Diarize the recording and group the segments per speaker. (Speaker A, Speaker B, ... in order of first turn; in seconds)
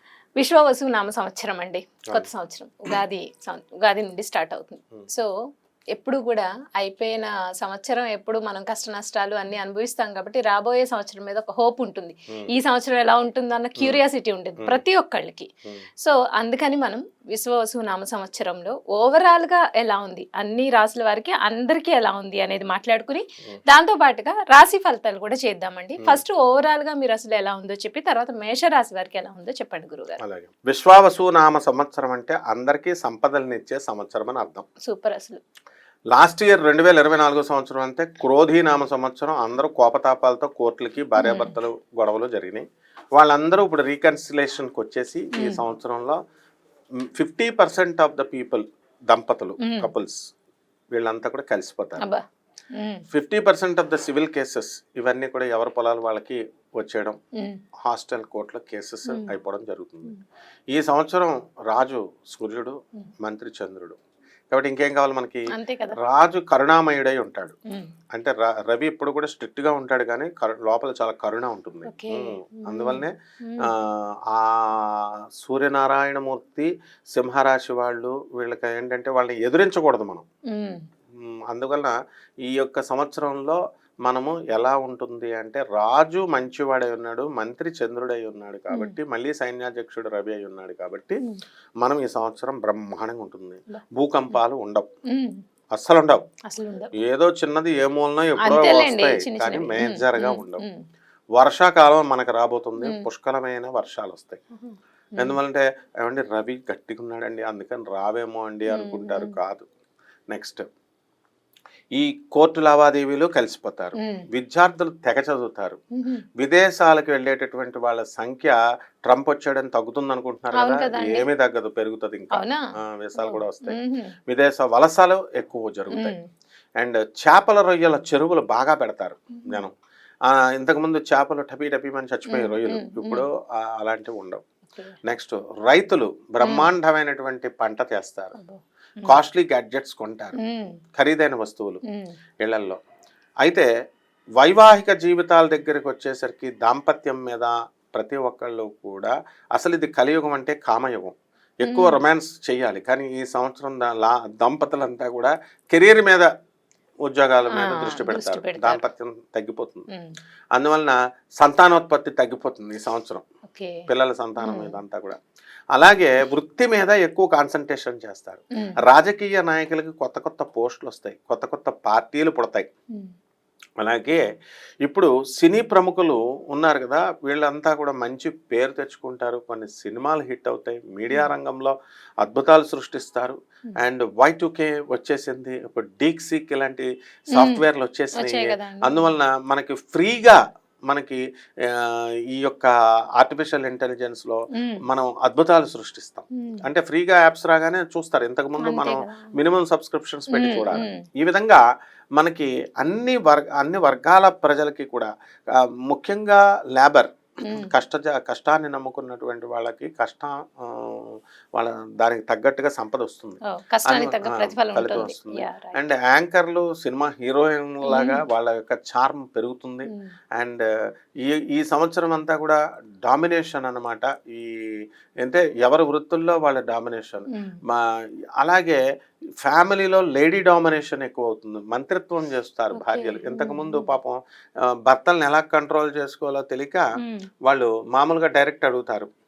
Speaker A: 0.4-5.3, 5.9-15.5, 16.0-30.2, 34.8-35.4, 41.2-41.5, 45.3-45.6, 49.6-49.9, 52.7-53.0, 65.5-66.0, 71.9-73.7, 80.5-80.8, 95.1-95.4, 96.5-96.9, 98.4-100.8, 102.8-103.0, 104.6-105.4, 108.7-109.3, 114.0-114.2, 120.5-121.2, 122.3-122.6, 123.2-124.1, 125.9-126.2, 129.3-129.6, 132.3-133.2, 136.4-136.7, 138.4-139.2, 140.4-140.8, 151.7-152.0, 157.5-158.8, 163.5-163.8, 164.4-164.8, 187.3-187.6, 188.1-189.1, 194.5-194.8, 198.6-199.3, 200.3-201.0, 213.5-215.8, 217.8-218.2, 227.3-227.6, 232.7-233.9, 237.0-237.3
Speaker B: 30.2-34.6, 36.1-42.6, 43.1-46.2, 47.1-50.2, 50.9-52.0, 53.1-57.2, 57.8-60.1, 60.7-64.0, 64.5-65.4, 66.0-67.6, 68.1-73.1, 73.6-80.2, 81.2-91.2, 91.8-94.9, 95.7-96.2, 97.0-100.6, 101.3-104.4, 105.2-109.7, 110.3-110.6, 111.9-115.8, 116.4-126.2, 126.8-129.7, 130.3-134.4, 135.0-138.3, 139.0-140.4, 140.9-141.8, 142.4-142.8, 144.4-156.3, 157.1-159.9, 160.5-163.2, 163.9-165.2, 165.7-172.7, 173.8-174.2, 174.8-201.6, 202.2-220.6, 221.2-224.5, 225.2-227.8, 228.4-228.8, 229.4-234.2, 234.8-236.8, 237.4-239.1